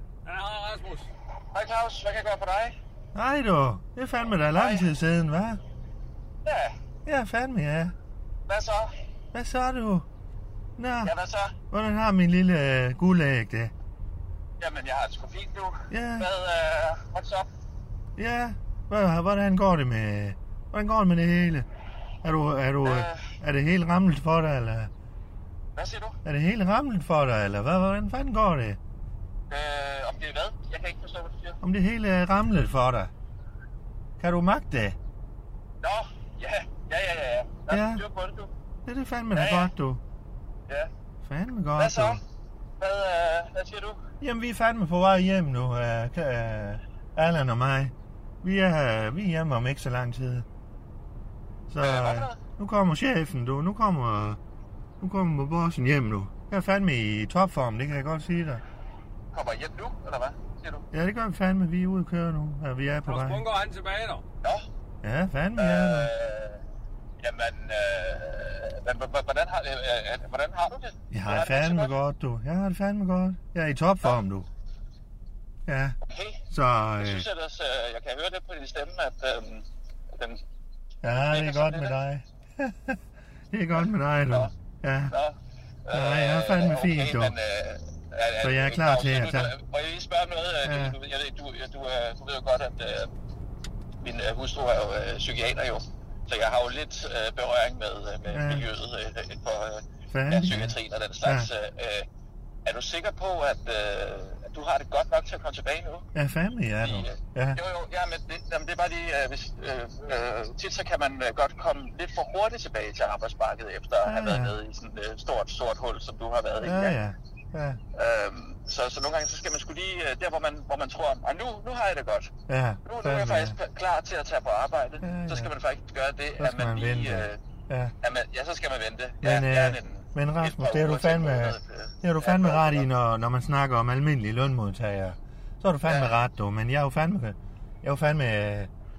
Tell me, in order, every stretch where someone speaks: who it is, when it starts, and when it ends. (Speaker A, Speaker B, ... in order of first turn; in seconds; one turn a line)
Speaker A: 0.3-1.1
Speaker B: 1.5-2.8
Speaker C: 3.1-5.6
Speaker B: 4.5-4.9
Speaker B: 6.5-6.7
Speaker C: 7.0-8.0
Speaker B: 8.5-8.9
Speaker C: 9.3-10.1
Speaker C: 10.8-11.1
Speaker B: 11.0-11.6
Speaker C: 11.7-13.7
Speaker B: 14.6-17.5
Speaker C: 15.9-16.3
Speaker C: 18.2-21.7
Speaker C: 22.2-24.9
Speaker B: 22.8-23.3
Speaker B: 25.8-26.2
Speaker C: 26.2-28.8
Speaker B: 29.5-31.6
Speaker C: 31.6-33.1
Speaker C: 34.2-35.0
Speaker B: 35.8-38.5
Speaker C: 37.7-38.0
Speaker C: 38.9-40.0
Speaker B: 39.4-39.7
Speaker C: 41.2-42.2
Speaker B: 41.8-42.2
Speaker B: 42.8-44.0
Speaker C: 44.2-50.5
Speaker C: 51.7-54.4
Speaker B: 51.8-52.4
Speaker C: 55.0-58.6
Speaker B: 59.3-60.9
Speaker C: 60.9-63.4
Speaker A: 63.1-64.2
Speaker C: 65.0-66.1
Speaker B: 65.6-66.6
Speaker B: 67.2-71.9
Speaker C: 71.1-74.5
Speaker C: 75.7-76.0
Speaker B: 76.0-76.4
Speaker C: 76.5-77.3
Speaker B: 77.0-80.4
Speaker C: 81.0-83.0
Speaker B: 81.1-82.0
Speaker C: 83.5-85.1
Speaker B: 85.1-85.3
Speaker B: 85.9-93.1
Speaker C: 85.9-87.3
Speaker C: 88.4-89.5
Speaker C: 90.6-91.0
Speaker B: 94.0-102.1
Speaker C: 98.3-98.7
Speaker C: 100.1-101.5
Speaker B: 102.7-106.1
Speaker C: 106.2-107.6
Speaker B: 106.8-117.0
Speaker C: 114.0-114.5
Speaker C: 116.6-117.8
Speaker B: 117.9-122.3
Speaker C: 122.5-123.6
Speaker B: 122.9-127.4
Speaker C: 125.0-125.5
Speaker C: 126.4-128.0
Speaker B: 128.0-132.9
Speaker C: 129.2-138.7
Speaker B: 135.9-136.1